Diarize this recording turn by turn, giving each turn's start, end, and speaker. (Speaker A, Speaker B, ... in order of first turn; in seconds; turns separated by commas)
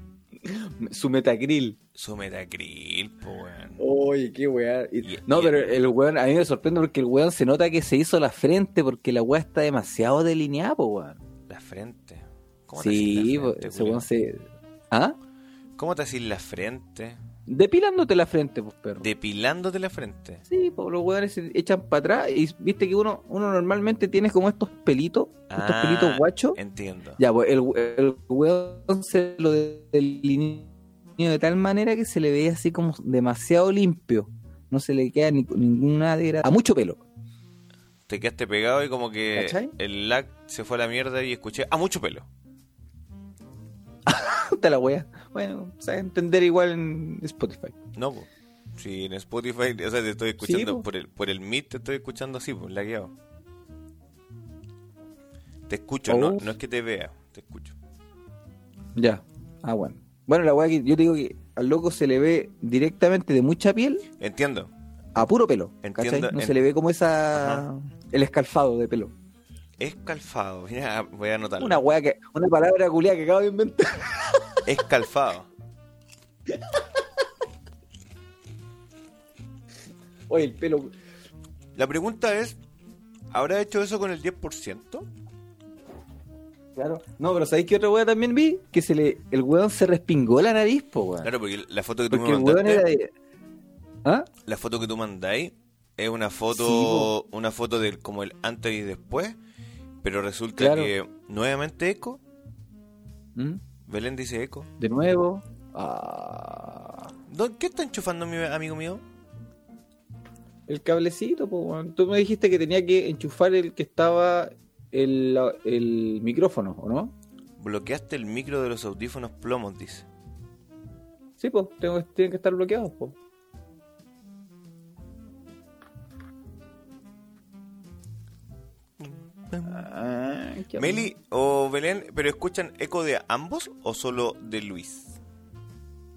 Speaker A: 0.4-1.8, Speaker B: 1.9-3.8, Speaker A: 3.8-11.2, Speaker B: 5.0-5.8, Speaker B: 11.5-14.1, Speaker A: 12.8-15.2, Speaker B: 15.8-17.2, Speaker A: 17.5-19.1, Speaker B: 19.0-20.4, Speaker A: 20.5-26.6, Speaker B: 25.5-27.2, Speaker A: 27.2-37.0, Speaker B: 38.1-42.3, Speaker A: 39.3-39.7, Speaker A: 44.1-47.8, Speaker B: 48.0-53.1, Speaker A: 50.4-50.8, Speaker B: 55.7-57.8, Speaker A: 56.1-56.5, Speaker A: 59.0-64.1, Speaker B: 64.2-64.7, Speaker A: 65.2-69.1, Speaker B: 65.8-66.6, Speaker B: 67.3-67.7, Speaker B: 69.8-71.8, Speaker A: 71.6-74.6, Speaker B: 74.7-75.5, Speaker A: 80.3-80.9, Speaker B: 81.8-82.6, Speaker B: 83.3-85.1, Speaker A: 86.8-91.3, Speaker B: 91.2-92.9, Speaker A: 92.1-93.1, Speaker B: 94.5-99.4, Speaker A: 96.5-97.1, Speaker B: 100.0-102.2, Speaker A: 100.6-100.9, Speaker B: 103.9-104.7, Speaker A: 104.8-107.1, Speaker B: 107.3-109.0, Speaker A: 110.7-117.1, Speaker B: 117.6-120.1, Speaker A: 121.4-123.2, Speaker B: 129.0-129.8, Speaker A: 129.6-131.1, Speaker B: 130.8-135.2